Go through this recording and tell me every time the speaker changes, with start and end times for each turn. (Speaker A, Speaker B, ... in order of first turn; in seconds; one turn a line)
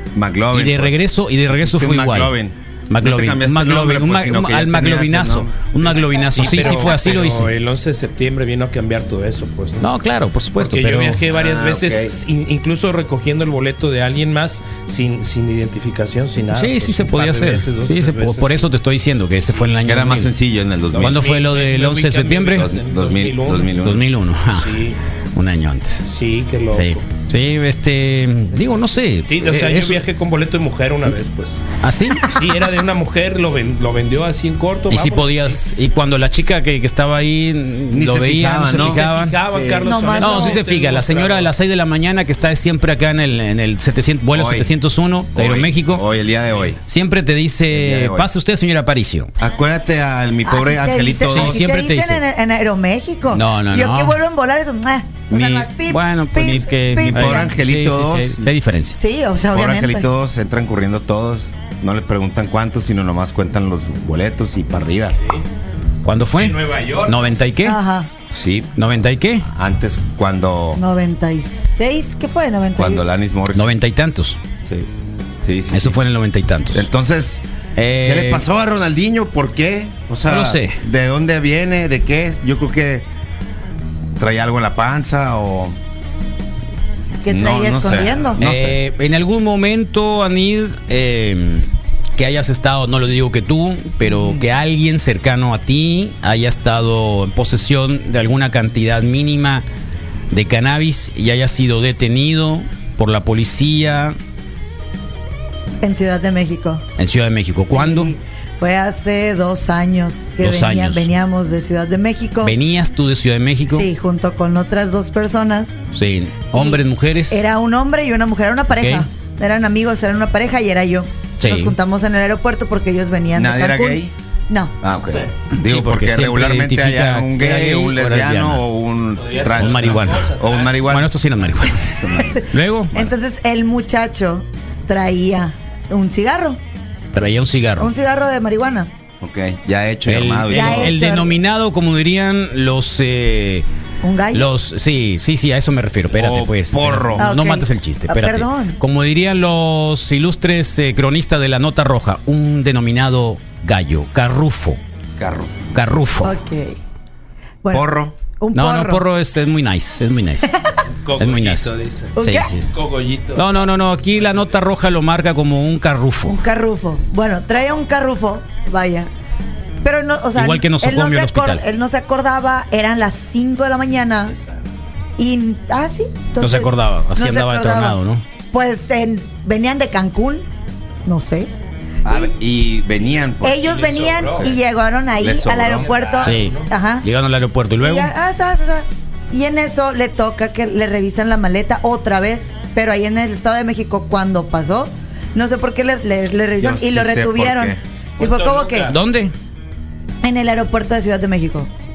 Speaker A: 0.1-6.7
Speaker B: 0.5-2.3
Speaker B: 2.9-7.5
Speaker C: 6.2-9.9
Speaker B: 9.8-11.2
Speaker C: 10.6-18.7
Speaker A: 11.3-12.1
Speaker B: 16.5-20.3
Speaker A: 19.8-21.2
Speaker C: 20.9-23.7
Speaker B: 21.0-22.7
Speaker A: 22.6-24.0
Speaker B: 23.8-24.8
Speaker C: 24.5-25.0
Speaker B: 25.4-26.1
Speaker C: 26.1-27.0
Speaker B: 26.7-30.0
Speaker C: 29.3-31.6
Speaker B: 31.8-32.4
Speaker C: 32.2-35.6
Speaker B: 34.9-39.4
Speaker A: 37.9-39.9
Speaker C: 38.8-41.5
Speaker D: 39.8-40.6
Speaker B: 40.2-46.0
Speaker A: 44.3-44.7
Speaker A: 45.4-46.8
Speaker B: 46.9-49.3
Speaker A: 47.7-48.3
Speaker A: 49.4-51.6
Speaker D: 50.5-57.5
Speaker B: 51.3-52.2
Speaker B: 53.3-54.2
Speaker A: 55.3-55.7
Speaker B: 55.9-59.0
Speaker A: 57.0-58.5
Speaker D: 59.0-60.1
Speaker A: 59.5-65.2
Speaker B: 66.0-67.8
Speaker C: 66.4-67.2
Speaker D: 67.6-68.1
Speaker A: 68.3-68.8
Speaker B: 68.8-69.5
Speaker A: 69.4-70.8
Speaker D: 70.8-73.0
Speaker A: 72.8-73.7
Speaker B: 73.5-74.4
Speaker A: 75.4-76.0
Speaker B: 75.7-76.9
Speaker A: 76.7-77.4
Speaker B: 77.8-78.5
Speaker A: 78.0-83.1
Speaker B: 80.3-80.8
Speaker A: 84.2-85.8
Speaker D: 87.2-88.4
Speaker A: 87.3-88.8
Speaker B: 88.4-99.7
Speaker D: 94.0-94.4
Speaker B: 100.3-104.2
Speaker D: 105.8-106.8
Speaker B: 107.0-108.1
Speaker D: 107.7-112.6
Speaker B: 110.4-111.1
Speaker B: 112.4-113.9
Speaker D: 113.7-115.7
Speaker B: 115.9-117.4
Speaker D: 116.5-124.7
Speaker B: 118.8-119.1
Speaker B: 121.4-121.7
Speaker A: 123.3-124.1
Speaker A: 124.8-131.1
Speaker B: 125.6-128.6
Speaker C: 129.2-130.9
Speaker B: 129.6-130.3
Speaker B: 130.8-132.9
Speaker A: 131.7-132.4
Speaker D: 132.9-136.6
Speaker B: 137.1-137.9
Speaker D: 137.8-138.9
Speaker A: 139.2-141.0
Speaker B: 140.1-143.7
Speaker D: 140.5-141.4
Speaker D: 144.0-144.5
Speaker B: 144.3-154.8
Speaker A: 146.1-147.3
Speaker D: 147.2-148.8
Speaker A: 155.2-155.7
Speaker B: 155.7-156.4
Speaker D: 156.2-156.8
Speaker D: 157.6-159.1
Speaker A: 157.7-158.2
Speaker B: 158.5-160.5
Speaker C: 161.0-162.2
Speaker B: 161.2-162.7
Speaker D: 162.2-162.5
Speaker C: 162.7-164.5
Speaker B: 163.4-166.4
Speaker D: 166.2-169.1
Speaker D: 169.8-174.3
Speaker B: 170.3-171.6
Speaker D: 175.2-178.0
Speaker B: 176.4-178.2
Speaker D: 178.5-180.4
Speaker D: 181.1-181.5
Speaker A: 182.1-184.6
Speaker D: 183.4-187.1
Speaker C: 183.6-184.5
Speaker A: 185.2-186.2
Speaker C: 185.7-186.7
Speaker B: 186.2-188.1
Speaker D: 187.8-198.9
Speaker A: 196.6-197.8
Speaker C: 198.2-199.0
Speaker B: 198.9-199.3
Speaker D: 200.2-201.7